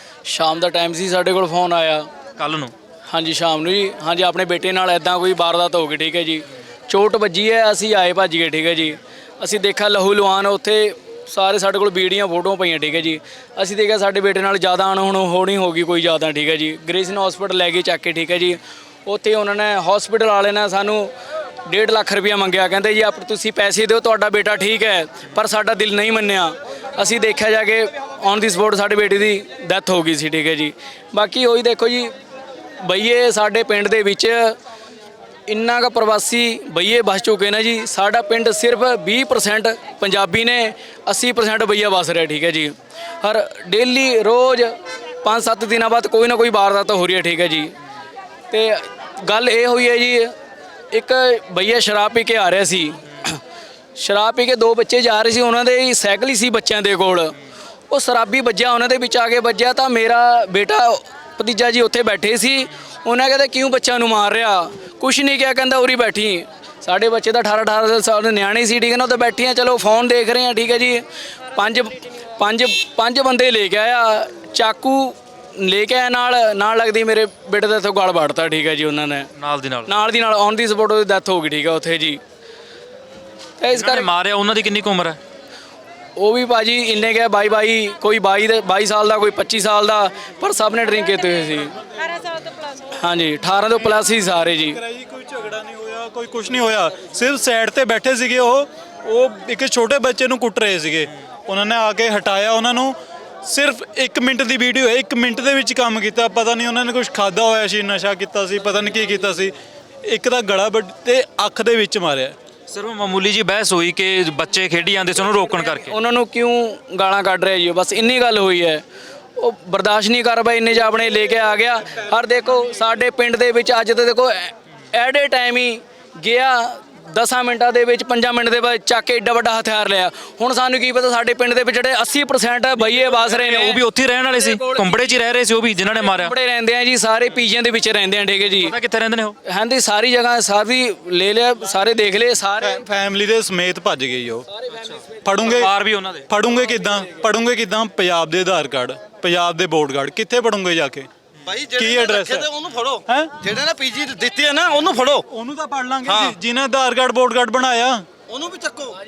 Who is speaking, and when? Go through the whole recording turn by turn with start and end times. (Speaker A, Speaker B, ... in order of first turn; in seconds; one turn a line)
Speaker A: 0.3-2.1
Speaker B: 2.4-2.7
Speaker A: 3.1-21.1
Speaker A: 21.7-32.1
Speaker A: 32.8-34.6
Speaker A: 35.5-47.8
Speaker A: 48.5-50.3
Speaker A: 50.9-53.4
Speaker A: 54.0-57.4
Speaker A: 57.9-79.3
Speaker C: 71.6-72.3
Speaker B: 79.3-79.9
Speaker A: 79.9-82.2
Speaker A: 83.6-84.1
Speaker B: 83.7-85.2
Speaker A: 86.2-91.8
Speaker C: 90.9-93.2
Speaker A: 93.0-94.8
Speaker D: 94.3-112.3
Speaker B: 112.7-116.0
Speaker A: 115.8-118.8
Speaker A: 119.4-135.2
Speaker B: 132.9-136.3
Speaker A: 135.9-138.8
Speaker B: 138.6-139.4
Speaker A: 139.5-142.8
Speaker D: 142.6-144.5
Speaker D: 145.2-145.7
Speaker B: 145.4-146.3
Speaker D: 146.3-151.1
Speaker E: 151.6-154.8
Speaker D: 151.7-152.5
Speaker D: 153.1-153.3
Speaker D: 155.3-158.1